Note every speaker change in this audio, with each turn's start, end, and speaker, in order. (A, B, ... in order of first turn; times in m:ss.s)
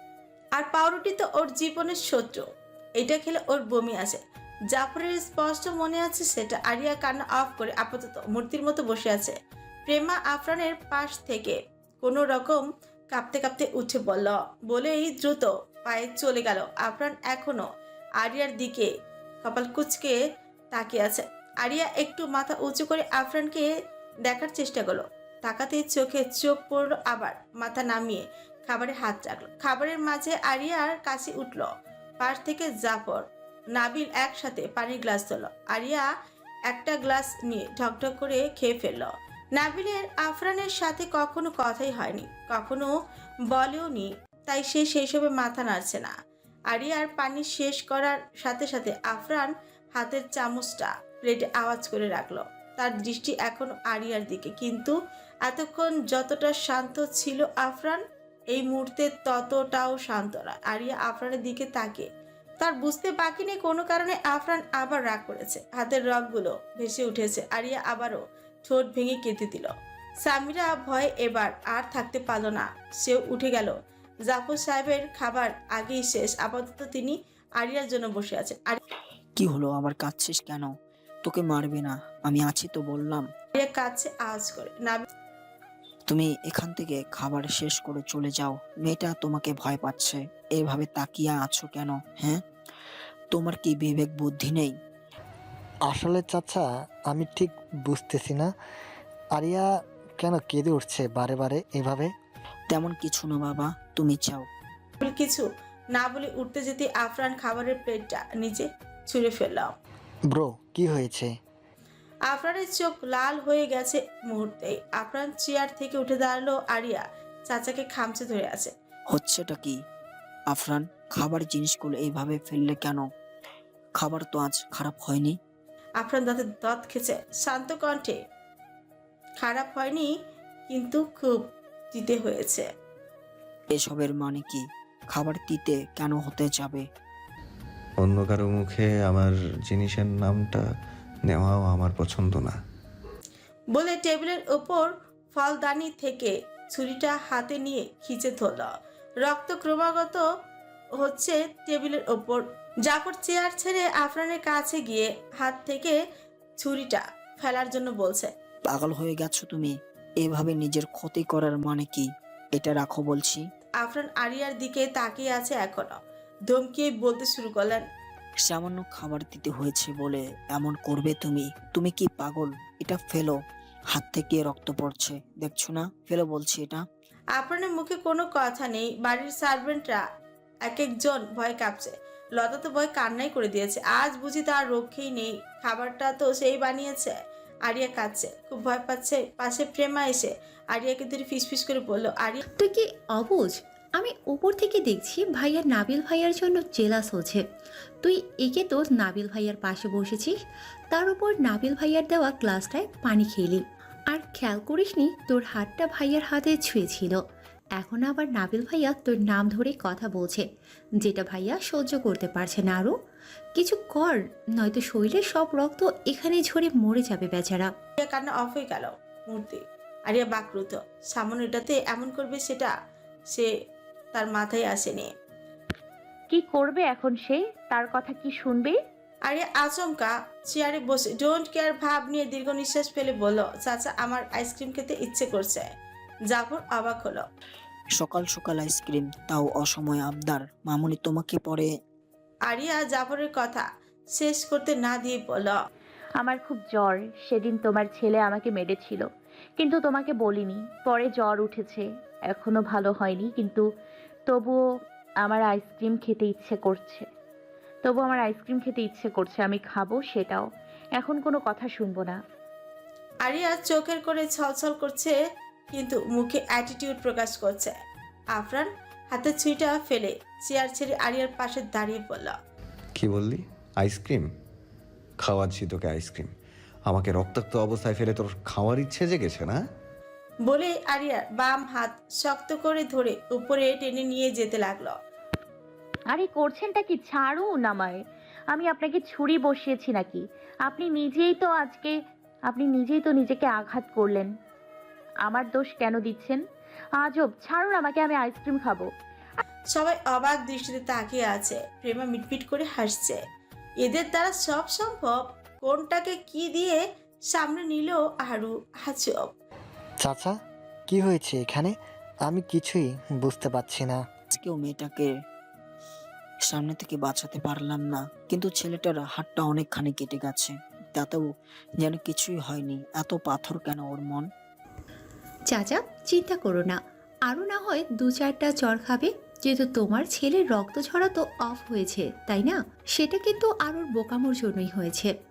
0:00.6-0:02.5 A
0:03.0-0:17.7 A
0:18.2-0:18.9 A
0:19.4-0:20.2 A
0:20.7-0:23.7 A
0:24.3-0:31.7 A
0:32.2-0:36.1 A
0:36.7-0:42.9 A
0:43.5-0:46.1 A
0:46.7-1:02.1 A
1:02.6-1:09.7 A
1:10.2-1:13.8 A
1:14.3-1:18.8 A
1:19.4-1:23.3 B
1:23.6-1:25.0 A
1:26.1-1:32.4 B
1:33.3-1:34.8 B
1:35.9-1:38.5 C
1:39.4-1:42.1 C
1:42.7-1:44.5 B
1:45.0-1:49.7 A
1:50.3-1:51.3 C
1:52.3-1:58.7 A
1:59.1-1:59.8 B
2:00.5-2:03.1 B
2:04.0-2:05.4 B
2:06.0-2:08.2 A
2:09.4-2:10.1 A
2:10.7-2:12.7 A
2:13.7-2:16.8 B
2:18.0-2:20.6 D
2:21.3-2:22.6 D
2:23.7-2:28.7 A
2:29.2-2:30.2 A
2:31.0-2:36.0 A
2:36.6-2:38.3 A
2:38.7-2:43.4 B
2:43.8-2:46.0 A
2:46.5-2:47.8 A
2:48.4-2:53.4 B
2:53.9-2:56.8 B
2:57.4-3:00.0 A
3:00.6-3:07.2 A
3:07.7-3:12.4 A
3:12.6-3:17.4 E
3:18.0-3:20.4 E
3:20.9-3:27.2 E
3:27.8-3:30.5 E
3:31.0-3:33.0 E
3:33.6-3:37.7 E
3:38.0-3:42.7 A
3:44.1-3:45.1 A
3:46.3-3:48.8 F
3:49.3-3:55.7 A
3:56.3-3:57.3 A
3:58.0-4:01.7 B
4:02.5-4:05.6 A
4:06.2-4:09.1 F
4:09.6-4:13.6 F
4:14.3-4:14.6 F
4:15.2-4:17.1 F
4:17.8-4:20.5 F
4:21.0-4:22.2 F
4:23.2-4:25.2 A
4:25.7-4:27.8 A
4:28.4-4:32.4 A
4:33.0-4:34.3 D
4:35.2-4:36.3 D
4:36.9-4:39.6 D
4:40.5-4:45.0 A
4:46.1-4:54.3 F
4:55.2-4:56.4 F
4:57.0-4:58.9 F
4:59.7-5:03.2 A
5:03.8-5:09.3 A
5:10.0-5:10.4 C
5:10.9-5:11.7 C
5:12.2-5:14.0 C
5:14.3-5:15.1 B
5:16.5-5:24.3 B
5:25.5-5:35.1 E